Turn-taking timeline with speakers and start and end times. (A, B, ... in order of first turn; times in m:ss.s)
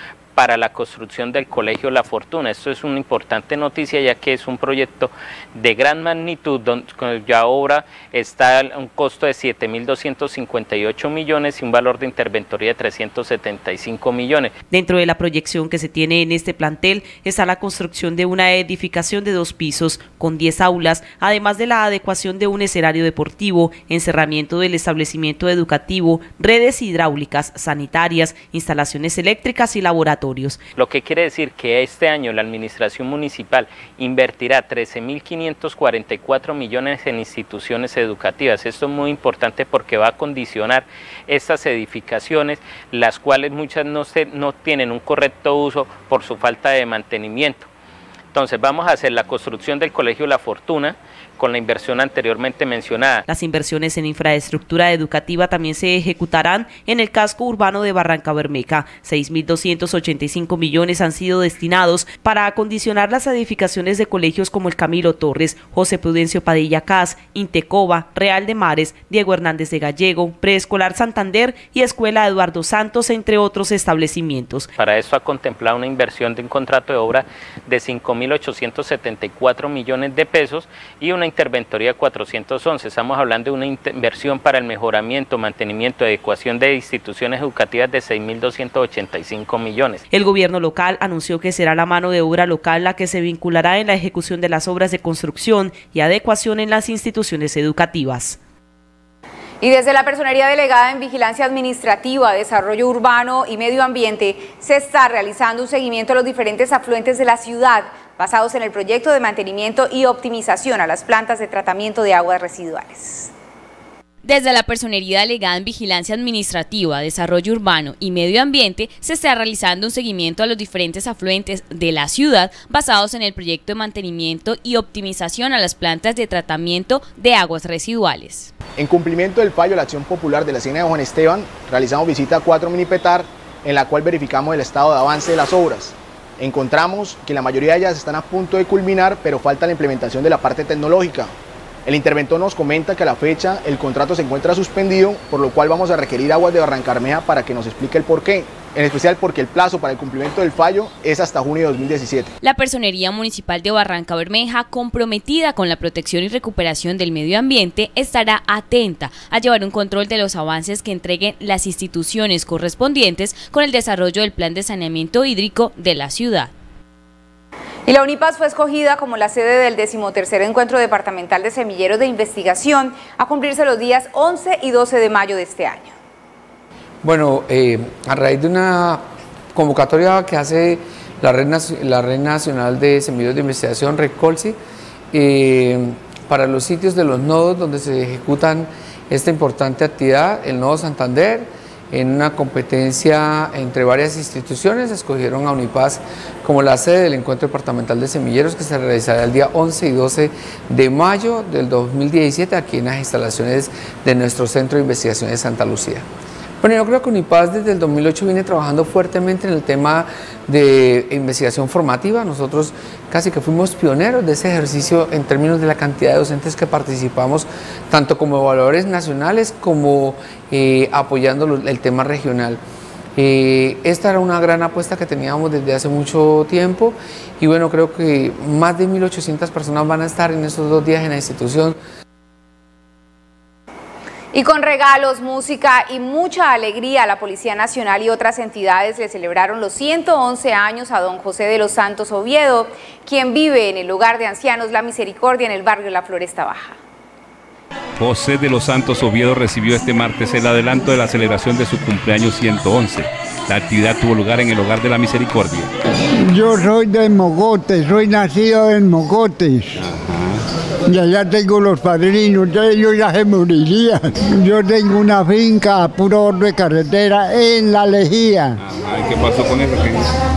0:00.4-0:14.5 A
0:14.7-0:30.6 B
0:30.8-0:47.7 A
0:48.3-0:53.2 A
0:53.3-1:14.7 B
1:14.8-1:30.0 A
1:30.1-1:38.4 B
1:39.6-1:53.3 C
1:54.2-2:08.5 D
2:08.8-2:21.3 E
2:21.8-2:32.3 E
2:32.4-2:46.5 D
2:47.9-2:55.9 C
2:57.0-2:59.0 F
2:59.5-3:04.6 F
3:05.1-3:26.0 F
3:26.6-3:42.6 F
3:43.2-3:51.8 F
3:54.3-4:06.8 C
4:08.0-4:15.7 G
4:16.2-4:19.8 H
4:19.9-4:20.4 G
4:20.9-4:28.6 H
4:28.6-4:30.1 G